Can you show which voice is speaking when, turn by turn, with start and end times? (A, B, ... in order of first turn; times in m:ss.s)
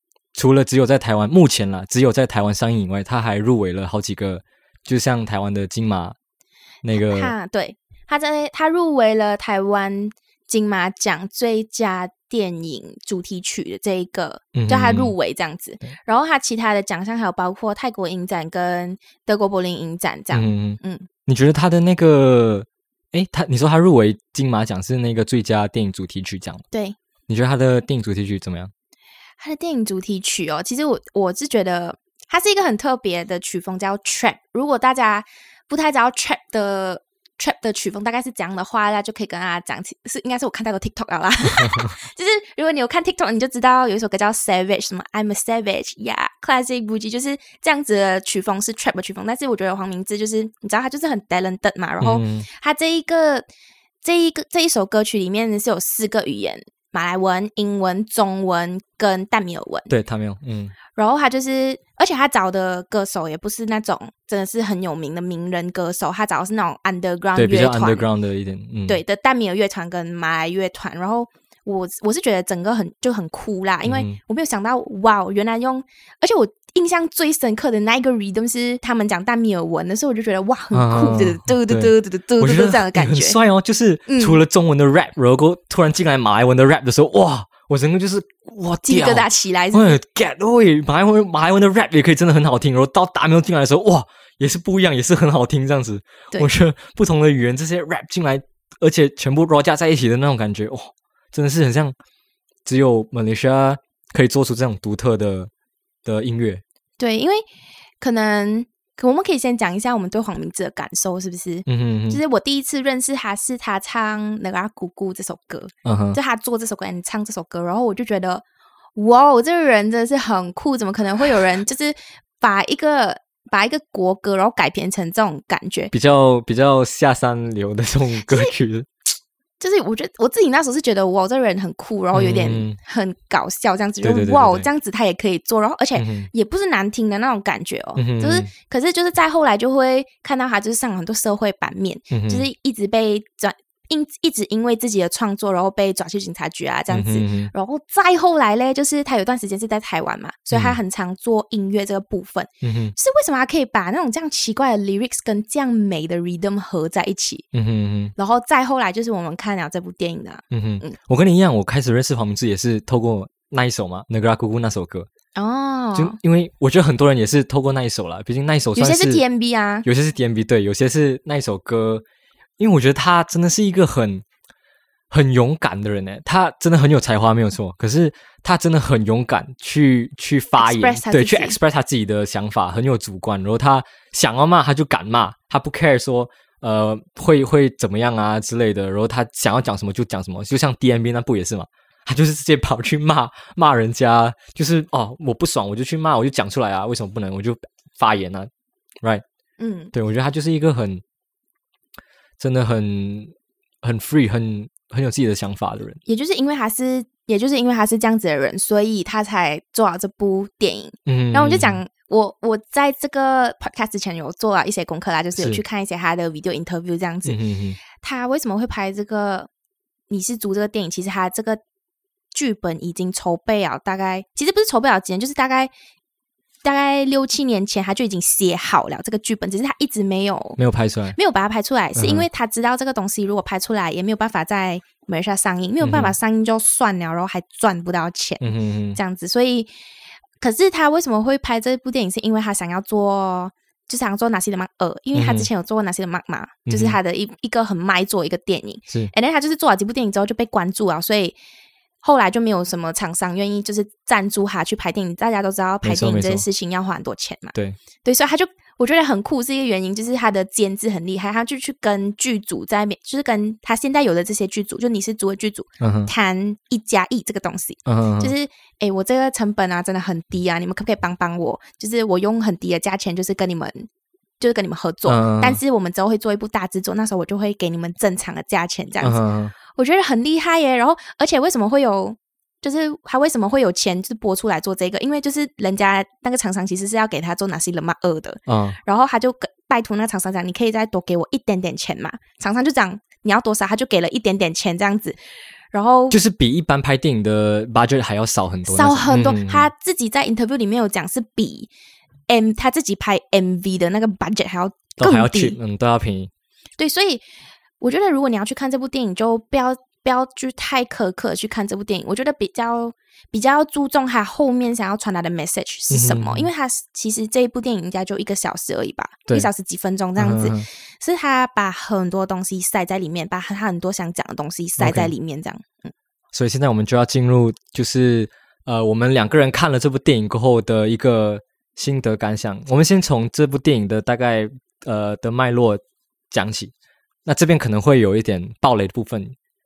0:00.3-0:06.2 A
0:06.8-0:07.3 A
0:07.0-0:21.1 B
0:14.5-0:15.1 A
0:20.3-0:26.6 A
0:26.7-0:27.0 B
0:27.3-0:28.7 A
0:29.4-0:53.4 B
0:41.6-0:41.9 A
0:52.0-0:52.4 A
0:54.0-0:59.9 B
0:59.9-1:00.7 A
1:00.9-1:08.1 B
1:07.4-1:09.0 A
1:08.9-1:23.4 B
1:13.8-1:14.2 A
1:20.7-1:41.9 A
1:24.1-1:24.4 B
1:28.8-1:30.0 B
1:42.6-1:45.5 A
1:46.0-1:46.6 A
1:47.0-1:47.4 B
1:48.0-1:58.4 B
1:51.7-1:52.2 A
1:55.8-1:56.2 A
1:58.9-2:05.9 B
2:05.9-2:08.9 A
2:08.3-2:08.5 B
2:09.6-2:37.4 B
2:12.1-2:12.8 A
2:14.0-2:14.7 A
2:16.0-2:16.3 A
2:18.0-2:18.5 A
2:22.1-2:22.5 A
2:26.9-2:27.5 A
2:30.5-2:30.8 A
2:32.6-2:32.9 A
2:37.5-2:38.1 A
2:38.2-2:41.0 B
2:40.5-2:45.1 A
2:45.4-2:46.2 B
2:45.9-2:49.2 A
2:48.8-2:49.8 B
2:49.8-2:52.0 A
2:52.6-2:54.2 A
2:55.1-3:18.5 A
3:00.6-3:01.6 B
3:19.6-3:19.9 B
3:19.9-3:21.0 A
3:22.4-3:26.0 A
3:26.0-3:37.4 B
3:31.0-3:31.8 A
3:37.2-3:37.8 A
3:37.9-3:39.5 B
3:40.1-3:41.6 B
3:42.3-3:45.7 B
3:46.6-3:50.6 B
3:50.6-3:51.2 A
3:51.2-3:59.7 B
3:52.0-3:52.3 A
3:55.8-3:56.1 A
3:58.4-3:59.0 A
4:00.4-4:11.4 B
4:05.1-4:05.5 A
4:06.7-4:07.0 A
4:12.0-4:33.9 B
4:15.8-4:16.4 A
4:25.8-4:26.1 A
4:27.8-4:28.3 A
4:34.4-4:55.2 B
4:35.1-4:35.6 A
4:39.0-4:39.5 A
4:48.5-4:48.8 A
4:55.7-4:56.2 B
4:56.1-4:59.7 A
4:58.7-5:01.7 B
5:02.3-5:05.6 B
5:05.0-5:06.3 A
5:06.8-5:07.2 B
5:07.8-5:25.9 B
5:15.9-5:16.5 A
5:20.2-5:20.7 A
5:24.8-5:25.1 A
5:26.3-5:36.7 A
5:37.2-5:39.3 A